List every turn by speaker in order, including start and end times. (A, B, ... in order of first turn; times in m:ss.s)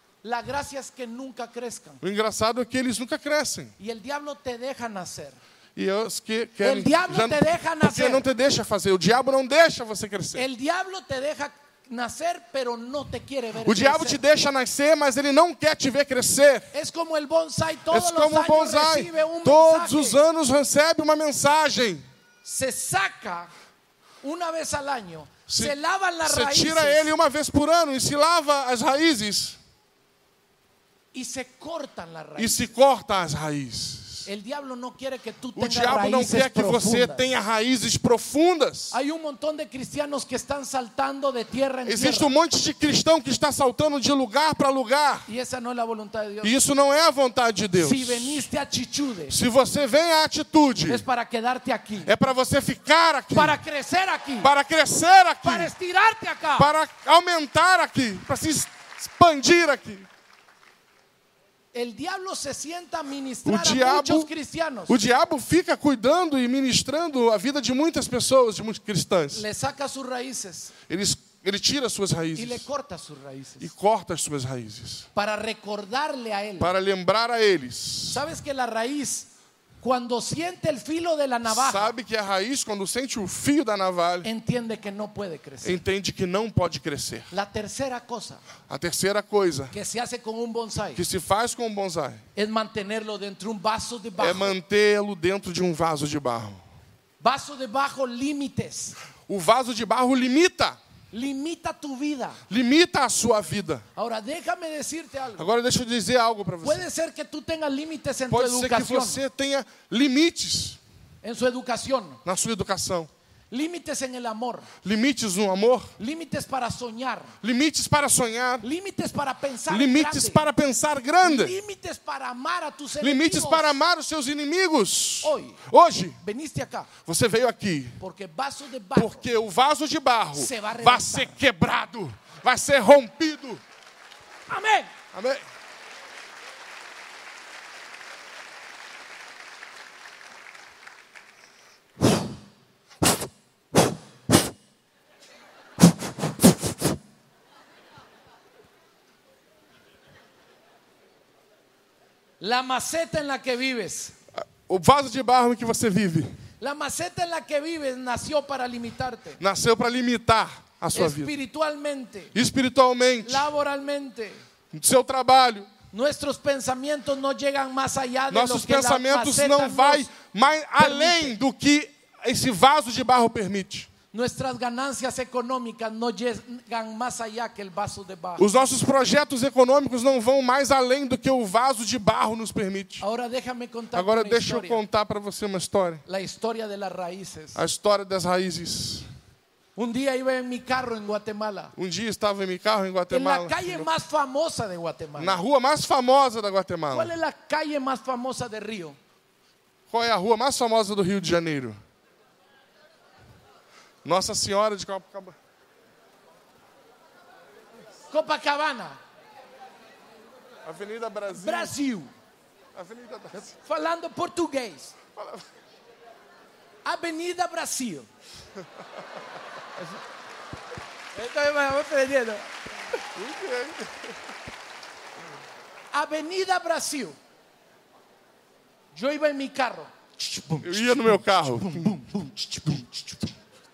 0:00.2-0:02.0 A
0:02.0-0:03.7 B
0:03.8-0:05.4 A
0:05.8-0:10.4 B
0:06.6-0:08.2 A
0:10.3-0:14.2 A
0:13.6-0:16.7 B
0:16.7-0:20.2 A
0:17.9-0:22.0 B
0:22.4-0:23.5 A
0:24.2-0:27.1 A
0:25.5-0:29.6 B
0:31.1-0:32.7 A
0:32.4-0:34.3 B
0:34.2-0:37.3 A
0:35.6-0:39.0 B
0:38.9-0:42.3 A
0:41.8-0:45.3 B
0:45.3-0:46.5 A
0:46.4-0:48.4 B
0:47.8-0:49.4 A
0:49.3-0:51.0 B
0:50.9-0:52.1 A
0:52.0-0:53.6 B
0:53.3-0:54.5 A
0:54.4-0:55.7 B
0:55.4-0:56.7 A
0:56.6-1:00.1 B
1:01.7-1:05.0 A
1:03.4-1:04.3 B
1:04.9-1:09.4 B
1:09.3-1:10.7 A
1:10.9-1:12.6 B
1:12.4-1:13.7 A
1:13.6-1:15.0 B
1:15.2-1:16.7 A
1:16.6-1:18.2 B
1:18.1-1:19.3 A
1:19.8-1:21.9 A
1:21.5-1:24.3 B
1:24.2-1:25.8 A
1:25.6-1:27.3 B
1:27.3-1:28.4 A
1:28.7-1:29.8 B
1:29.7-1:31.0 A
1:30.9-1:32.2 B
1:32.4-1:34.5 A
1:34.2-1:36.6 B
1:37.2-1:39.0 A
1:39.3-1:40.8 B
1:41.1-1:42.4 A
1:42.5-1:43.8 B
1:44.0-1:45.5 A
1:45.4-1:46.8 B
1:46.6-1:49.2 A
1:48.3-1:50.8 B
1:51.2-1:52.2 A
1:52.2-1:53.1 B
1:53.5-1:54.7 A
1:54.8-1:55.9 B
1:56.0-1:57.3 A
1:57.4-1:58.6 B
1:58.6-2:00.4 A
1:59.7-2:01.6 B
2:01.2-2:03.8 A
2:03.0-2:06.2 B
2:05.2-2:05.6 A
2:06.2-2:06.9 A
2:07.0-2:08.0 B
2:08.0-2:09.2 A
2:08.9-2:13.6 B
2:10.3-2:11.4 A
2:14.5-2:14.9 A
2:15.1-2:15.4 B
2:32.4-2:34.1 A
2:34.3-2:36.4 B
2:36.6-2:39.4 A
2:39.4-2:41.3 B
2:40.9-2:42.3 A
2:42.3-2:43.5 B
2:43.2-2:44.4 A
2:44.7-2:45.7 B
2:45.9-2:50.1 A
2:48.3-2:53.9 B
2:50.8-2:51.4 A
2:54.1-2:58.4 A
2:58.4-3:03.0 B
3:03.0-3:04.8 A
3:03.9-3:06.0 B
3:06.0-3:07.6 A
3:07.5-3:09.1 B
3:09.8-3:11.7 A
3:11.8-3:13.9 B
3:13.1-3:15.4 A
3:15.2-3:17.1 B
3:16.9-3:19.0 A
3:19.9-3:21.8 B
3:24.0-3:25.4 B
3:28.1-3:29.0 A
3:30.6-3:31.7 B
3:31.3-3:32.1 A
3:32.7-3:33.5 B
3:33.3-3:35.0 A
3:35.2-3:35.4 B
3:36.8-3:38.1 A
3:41.1-3:42.5 A
3:43.1-3:44.1 B
3:45.9-3:47.2 A
3:48.9-3:53.2 A
3:50.6-3:52.0 B